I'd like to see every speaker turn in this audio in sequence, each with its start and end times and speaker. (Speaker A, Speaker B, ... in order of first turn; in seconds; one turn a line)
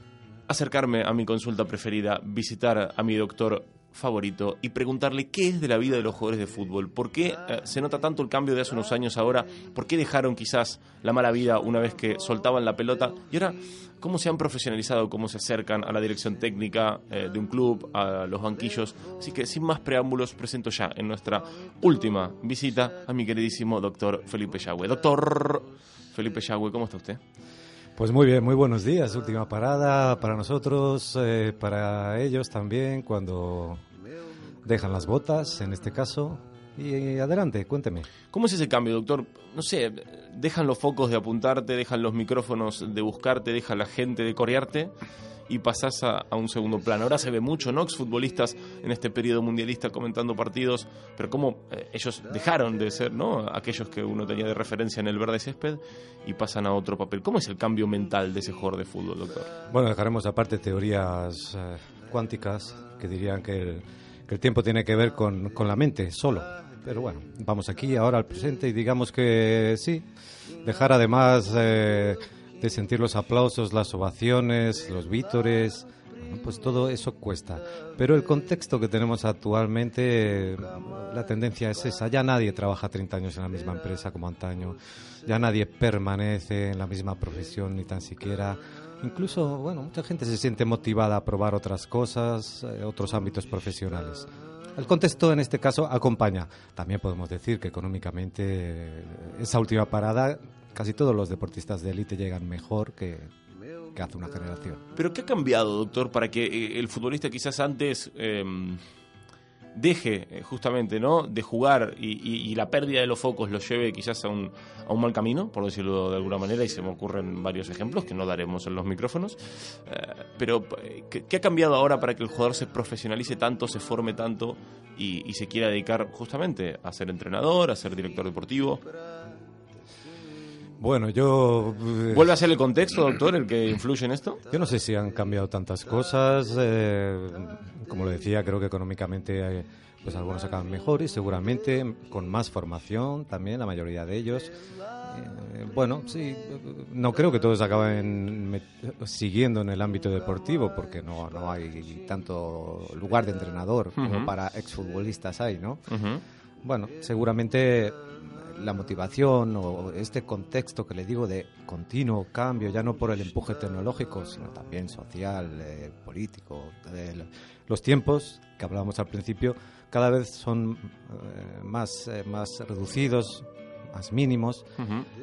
Speaker A: 0.5-27.2
Speaker B: 28.0-33.8
Speaker B: 34.6-38.1
Speaker A: 38.3-45.0
Speaker A: 45.5-59.5
Speaker B: 59.7-70.1
Speaker B: 70.6-103.3
Speaker B: 103.9-104.8
Speaker A: 105.0-108.8
Speaker A: 109.7-128.8
Speaker B: 130.8-132.3
Speaker A: 132.1-134.4
Speaker B: 134.5-144.5
Speaker B: 145.1-155.8
Speaker A: 154.0-154.3
Speaker A: 155.9-156.2
Speaker B: 156.6-174.7
Speaker A: 174.8-175.1